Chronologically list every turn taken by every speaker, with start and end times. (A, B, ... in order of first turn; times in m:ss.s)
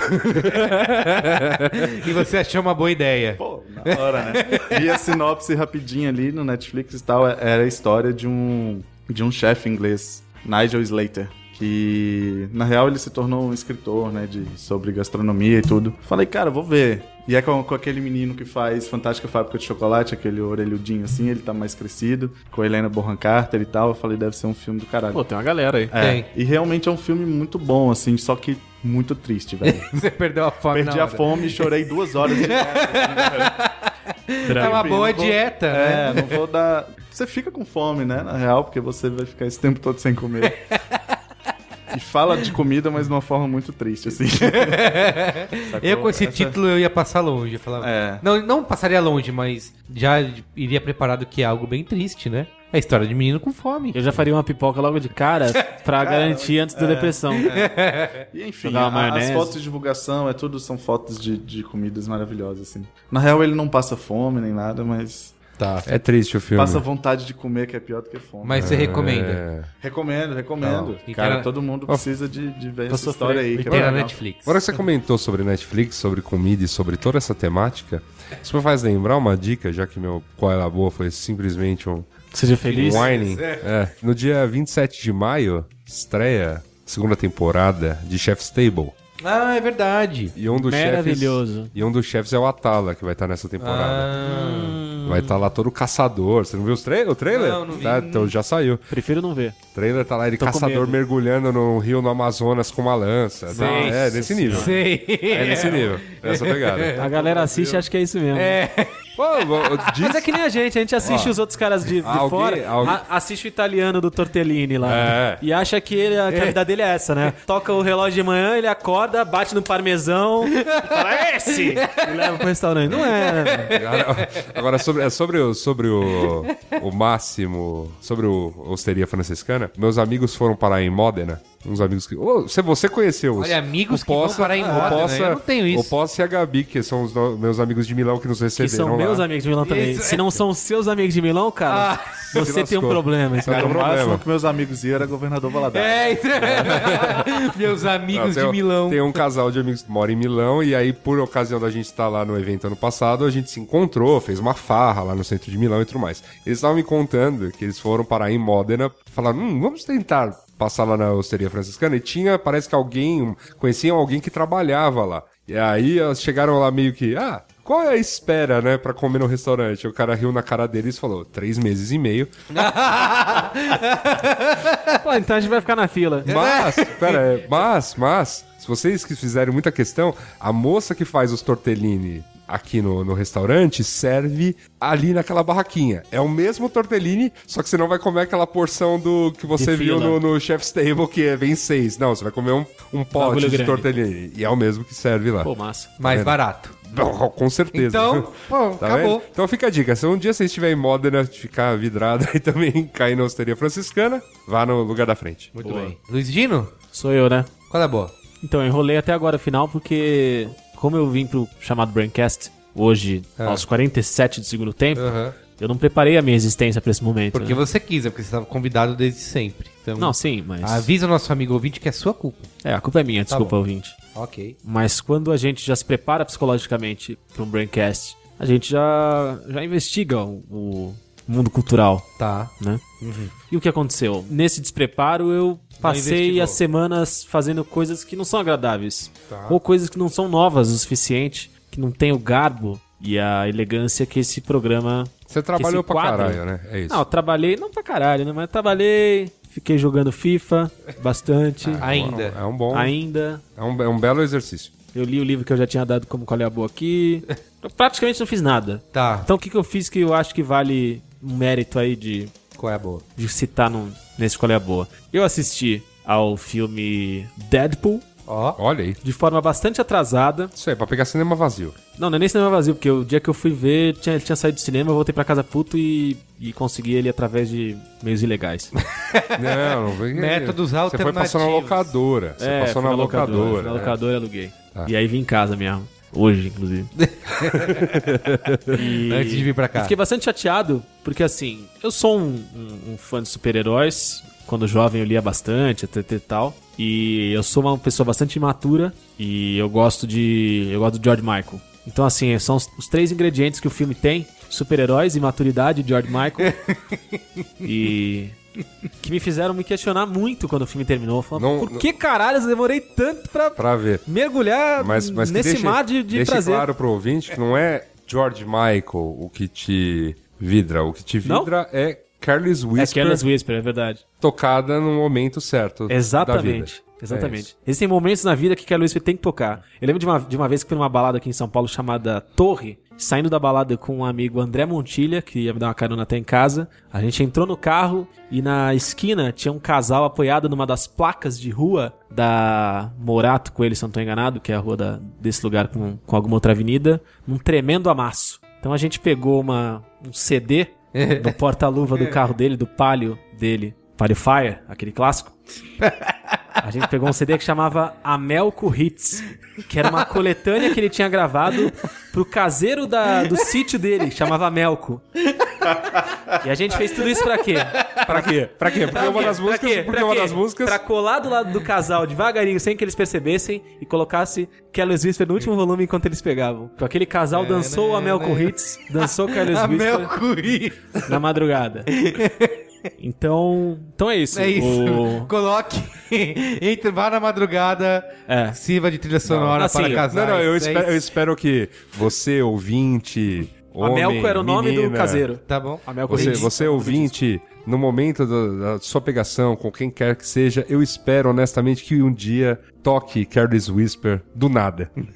0:00.3-0:04.8 A
0:00.4-0:00.7 B
0:03.4-0:25.2 C
0:25.1-0:25.9 D
0:25.9-0:29.9 C
0:26.0-0:26.3 A
0:29.9-0:31.5 A
0:30.7-0:33.5 C
0:32.2-0:36.4 A
0:34.5-0:34.9 D
0:34.5-0:40.6 C
0:41.9-0:45.0 C
0:44.5-0:54.0 A
0:45.5-0:46.6 C
0:47.8-0:48.2 C
0:53.9-0:57.5 D
0:56.0-0:57.8 C
0:57.4-0:58.2 A
0:58.3-1:05.4 C
0:58.6-0:59.6 D
1:05.6-1:05.9 A
1:05.8-1:06.8 B
1:06.5-1:09.1 C
1:08.4-1:09.4 A
1:08.5-1:09.7 B
1:09.8-1:14.2 C
1:10.6-1:11.0 B
1:11.1-1:11.5 A
1:12.9-1:13.8 D
1:13.7-1:14.5 A
1:14.4-1:22.1 B
1:22.3-1:23.1 D
1:22.7-1:23.6 A
1:22.7-1:28.9 B
1:29.2-1:30.4 A
1:30.3-1:34.1 B
1:30.5-1:31.7 D
1:33.6-1:34.8 A
1:34.2-1:35.4 D
1:35.0-1:38.9 B
1:37.3-1:38.3 A
1:38.9-1:39.6 D
1:39.7-1:47.0 B
1:40.4-1:41.0 D
1:43.5-1:44.8 D
1:43.5-1:49.9 A
1:47.0-1:48.6 D
1:49.2-1:50.3 B
1:50.0-2:03.8 D
1:51.0-1:51.3 B
1:52.0-1:53.0 B
1:54.8-1:55.4 B
2:00.6-2:02.4 A
2:03.0-2:04.6 A
2:03.7-2:19.3 B
2:06.1-2:06.8 A
2:13.4-2:15.9 A
2:14.3-2:15.1 D
2:18.6-2:23.9 D
2:19.6-2:20.4 A
2:21.7-2:22.5 A
2:22.1-2:24.2 B
2:23.4-2:27.2 C
2:25.7-2:29.2 A
2:26.4-2:27.2 B
2:28.1-2:52.4 B
2:52.5-2:55.0 A
2:55.0-2:56.4 D
2:56.2-3:25.5 B
2:56.2-2:57.3 A
3:09.5-3:10.2 D
3:13.1-3:13.9 D
3:15.4-3:15.9 D
3:16.0-3:16.8 A
3:17.7-3:19.2 A
3:25.5-3:26.7 A
3:25.6-3:25.9 D
3:26.9-3:27.5 D
3:27.7-3:28.1 A
3:28.4-3:37.6 D
3:33.4-3:33.6 A
3:34.9-3:35.4 A
3:37.3-3:42.5 A
3:40.0-3:40.9 D
3:42.6-3:44.0 D
3:43.3-3:43.5 A
3:44.1-3:44.6 A
3:44.6-3:52.1 D
3:52.2-3:53.3 A
3:52.6-3:52.8 D
3:53.4-4:12.0 D
3:55.8-3:56.6 A
3:59.3-3:59.6 A
4:05.3-4:07.0 B
4:11.6-4:13.0 B
4:11.8-4:12.4 A
4:12.7-4:13.4 D
4:13.6-4:14.7 B
4:14.9-4:22.3 D
4:18.9-4:19.3 A
4:22.6-4:23.0 A
4:23.2-4:28.1 D
4:28.3-4:28.6 A
4:28.6-4:29.0 B
4:29.0-4:30.5 D
4:30.5-4:31.8 B
4:32.0-4:38.7 D
4:39.0-4:41.9 A
4:39.3-4:44.0 B
4:42.4-4:46.9 D
4:47.0-4:48.1 A
4:47.5-4:48.8 B
4:48.7-5:06.5 D
4:48.7-4:50.0 A
5:06.5-5:07.0 A
5:07.6-5:08.4 D
5:09.0-5:16.7 D
5:11.4-5:11.9 B
5:13.6-5:14.0 B
5:14.8-5:23.2 B
5:21.2-5:21.5 D
5:22.8-5:24.0 D
5:24.2-5:27.5 B
5:25.9-5:55.4 D
5:50.9-5:51.4 A
5:56.6-6:05.0 D
6:05.4-6:06.0 A
6:06.4-6:08.0 D
6:07.8-6:08.2 A
6:08.0-6:10.8 B
6:08.7-6:20.1 D
6:08.8-6:09.4 A
6:17.3-6:18.5 A
6:19.0-6:21.1 A
6:21.0-6:21.9 D
6:21.9-6:22.6 A
6:23.0-6:25.3 D
6:24.3-6:31.0 A
6:28.3-6:28.6 D
6:29.2-6:30.1 D
6:29.3-6:35.3 B
6:33.8-6:37.2 D
6:35.4-6:36.5 A
6:36.1-6:44.9 B